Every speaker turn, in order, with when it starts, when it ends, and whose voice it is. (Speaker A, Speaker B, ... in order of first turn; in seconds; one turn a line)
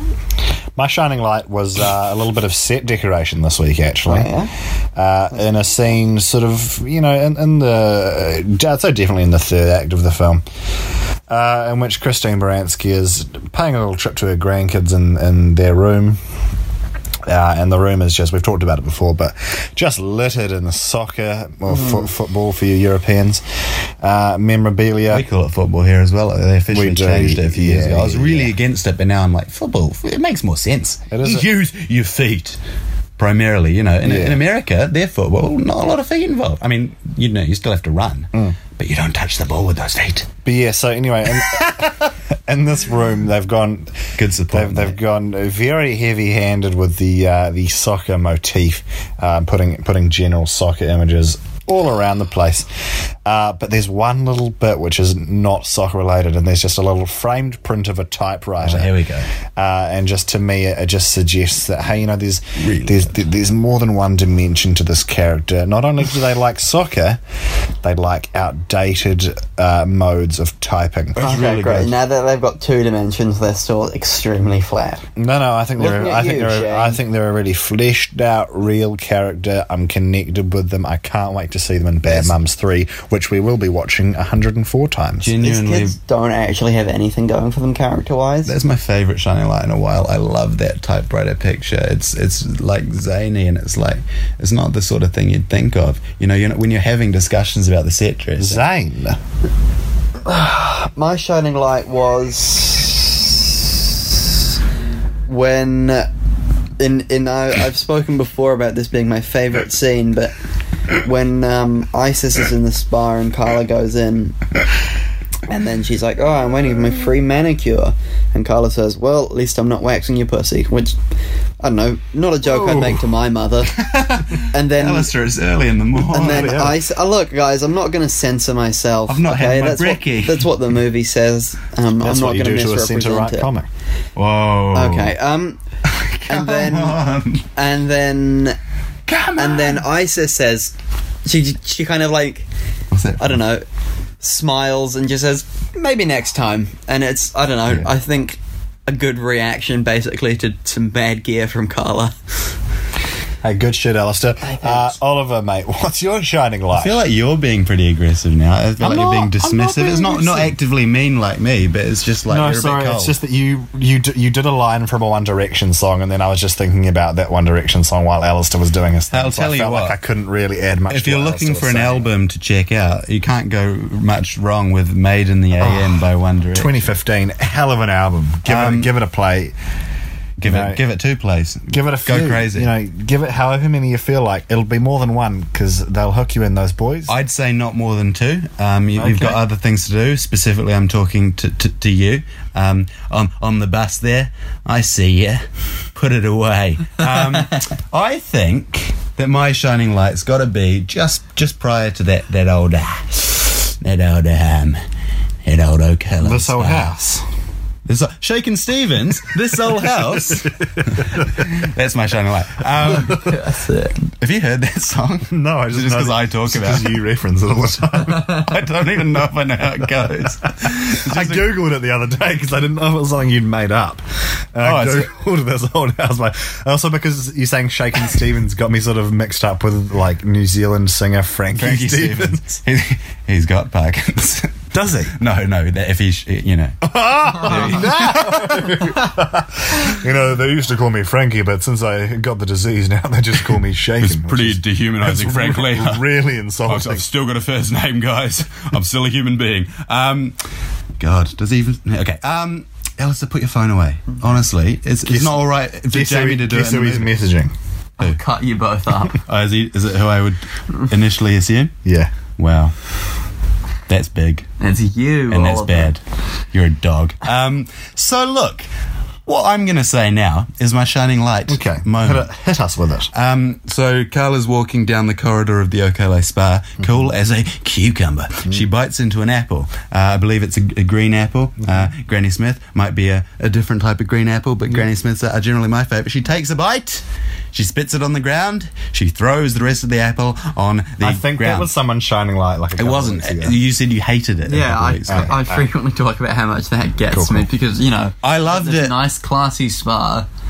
Speaker A: 0.8-4.3
Speaker B: 4.1-4.5
Speaker A: 5.0-10.4
Speaker B: 5.3-5.8
Speaker A: 11.3-16.2
Speaker A: 17.3-23.4
Speaker B: 21.7-22.1
Speaker A: 24.0-25.3
Speaker C: 25.1-32.6
Speaker A: 26.7-28.5
Speaker A: 31.1-31.5
Speaker C: 33.2-40.3
Speaker A: 34.0-34.4
Speaker A: 40.5-41.7
Speaker C: 41.3-42.0
Speaker A: 42.5-43.9
Speaker C: 44.2-45.0
Speaker A: 44.5-52.7
Speaker A: 53.2-58.9
Speaker C: 58.6-59.3
Speaker A: 59.6-67.2
Speaker C: 62.6-63.1
Speaker A: 67.8-71.9
Speaker B: 71.2-75.0
Speaker C: 71.2-71.8
Speaker A: 75.2-85.3
Speaker B: 75.8-77.0
Speaker C: 82.0-82.4
Speaker C: 85.2-86.0
Speaker B: 85.4-88.5
Speaker C: 88.5-98.6
Speaker A: 98.4-99.2
Speaker B: 100.2-104.2
Speaker B: 105.3-106.1
Speaker B: 106.8-110.3
Speaker B: 111.0-114.4
Speaker B: 115.5-121.0
Speaker B: 121.6-123.7
Speaker A: 122.5-123.0
Speaker C: 123.8-126.6
Speaker B: 124.4-125.1
Speaker B: 126.1-133.5
Speaker A: 126.2-126.8
Speaker C: 129.1-130.5
Speaker A: 132.0-133.7
Speaker C: 134.2-135.2
Speaker B: 134.7-135.6
Speaker C: 135.8-137.5
Speaker B: 136.3-137.0
Speaker B: 137.6-138.6
Speaker C: 139.1-139.8
Speaker B: 139.4-140.7
Speaker B: 141.2-142.5
Speaker C: 142.9-143.4
Speaker B: 143.2-143.7
Speaker B: 144.2-152.1
Speaker A: 153.4-157.1
Speaker B: 154.4-154.9
Speaker C: 156.7-163.2
Speaker A: 158.8-160.6
Speaker A: 162.3-172.1
Speaker C: 169.1-170.0
Speaker C: 170.9-176.9
Speaker A: 175.6-179.5
Speaker C: 178.5-178.9
Speaker C: 180.4-182.7
Speaker A: 180.4-180.8
Speaker A: 181.7-187.1
Speaker C: 187.1-195.4
Speaker A: 189.0-189.4
Speaker C: 195.9-204.8
Speaker C: 205.4-206.9
Speaker A: 206.2-207.2
Speaker C: 207.9-213.3
Speaker A: 209.7-211.5
Speaker A: 212.8-213.3
Speaker B: 212.9-214.0
Speaker C: 214.2-217.0
Speaker A: 215.3-218.3
Speaker C: 218.1-221.5
Speaker A: 220.6-224.0
Speaker A: 224.5-232.5
Speaker C: 224.6-225.1
Speaker C: 231.5-234.6
Speaker A: 234.7-235.2
Speaker C: 235.2-236.8
Speaker A: 236.8-247.1
Speaker C: 237.4-238.6
Speaker C: 244.0-246.0
Speaker C: 246.7-250.4
Speaker C: 251.0-257.1
Speaker A: 255.1-257.5
Speaker B: 258.0-259.2
Speaker C: 259.3-261.7
Speaker A: 261.9-262.1
Speaker C: 262.4-262.7
Speaker C: 263.9-264.5
Speaker B: 264.6-265.9
Speaker C: 265.3-266.0
Speaker C: 266.5-268.7
Speaker C: 269.3-272.3
Speaker A: 271.5-273.1
Speaker C: 273.1-291.7
Speaker A: 291.0-293.6
Speaker C: 292.8-295.4
Speaker B: 294.4-300.3
Speaker A: 295.1-295.6
Speaker A: 297.1-297.5
Speaker C: 298.2-298.9